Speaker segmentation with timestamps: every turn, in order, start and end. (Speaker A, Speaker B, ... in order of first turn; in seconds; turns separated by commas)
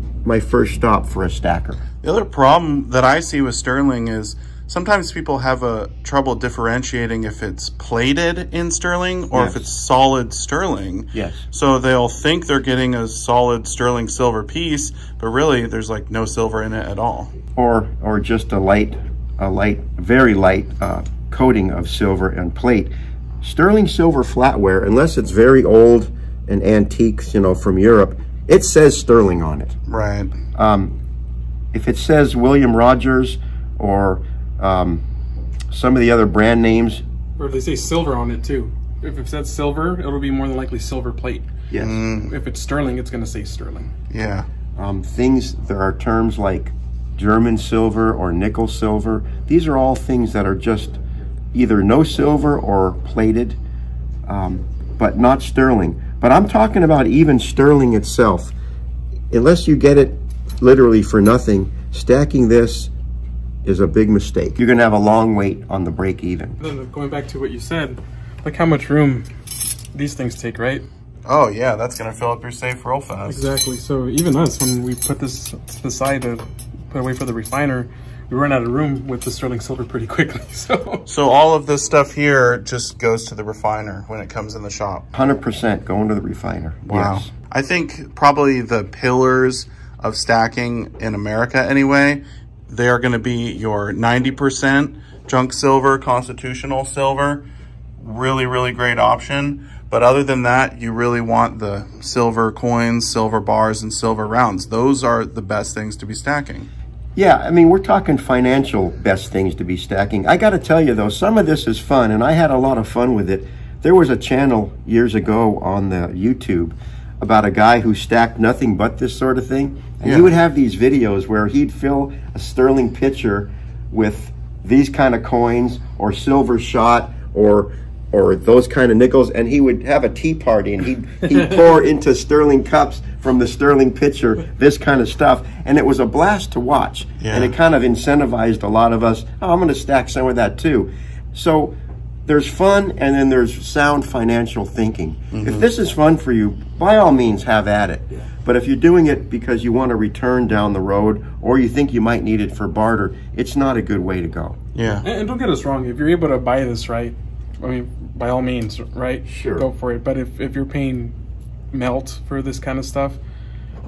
Speaker A: 0.2-1.8, Speaker B: 2.0-17.3, Speaker A: 9.3-9.6, Speaker A: 11.1-11.5, Speaker A: 17.6-22.9, Speaker A: 23.4-29.8, Speaker B: 29.9-30.3, Speaker A: 30.5-30.9, Speaker A: 31.7-35.0, Speaker A: 35.7-37.0, Speaker C: 37.4-41.5, Speaker A: 41.7-42.0, Speaker B: 41.8-42.3, Speaker C: 42.1-43.9, Speaker B: 44.1-44.5, Speaker A: 44.8-51.0, Speaker A: 51.5-53.6, Speaker A: 54.3-58.5, Speaker A: 59.3-62.9, Speaker A: 63.6-66.6, Speaker C: 66.6-69.3, Speaker C: 69.9-70.8, Speaker B: 71.2-73.4, Speaker C: 73.3-81.1, Speaker B: 81.1-85.0, Speaker A: 85.1-87.3, Speaker B: 86.8-97.4, Speaker B: 98.0-106.7, Speaker A: 107.2-141.7, Speaker B: 120.0-120.3, Speaker B: 137.2-137.5, Speaker A: 142.3-154.6, Speaker B: 145.3-145.7, Speaker B: 154.7-155.0, Speaker C: 155.0-161.1, Speaker A: 159.2-159.7, Speaker C: 161.7-163.2